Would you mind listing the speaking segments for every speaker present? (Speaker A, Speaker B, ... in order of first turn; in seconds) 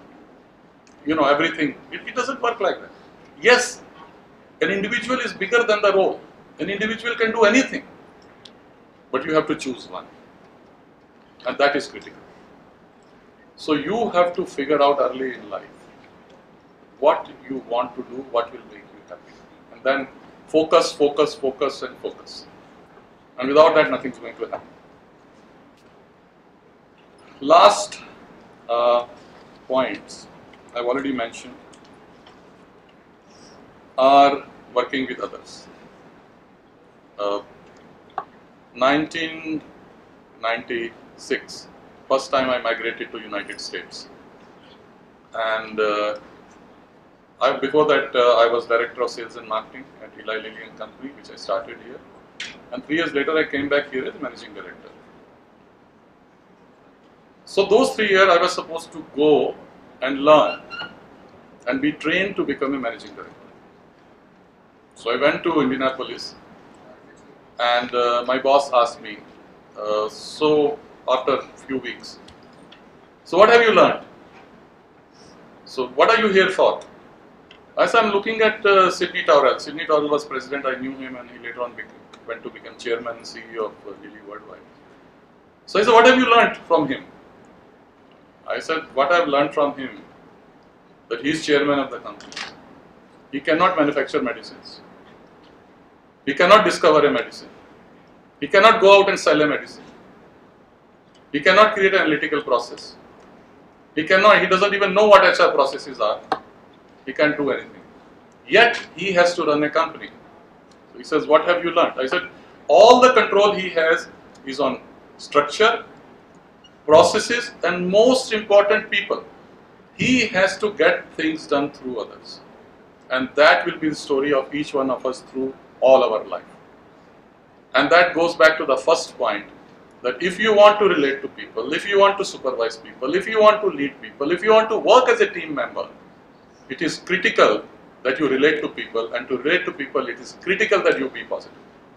Speaker A: 1.0-3.8, 4.6-7.9, 9.1-10.1, 11.4-12.2, 13.6-15.8, 17.0-22.5, 23.4-24.7, 27.4-28.0, 28.7-29.1, 29.7-31.6, 34.0-35.7, 37.2-37.4, 38.7-39.6, 40.4-44.1, 45.3-46.2, 47.4-52.0, 52.7-54.9, 57.5-60.9, 61.6-63.4, 65.0-66.3, 67.6-69.2, 69.8-72.2, 73.2-74.1, 75.7-76.8, 77.8-84.7, 85.7-87.1, 88.5-90.0, 91.1-92.5, 93.3-94.8, 96.2-97.5, 98.4-99.9, 101.3-103.0, 103.9-106.3, 107.0-107.8, 108.5-110.1, 110.9-115.8, 116.8-119.2, 120.0-122.4, 123.1-126.5, 127.7-135.9, 136.7-141.6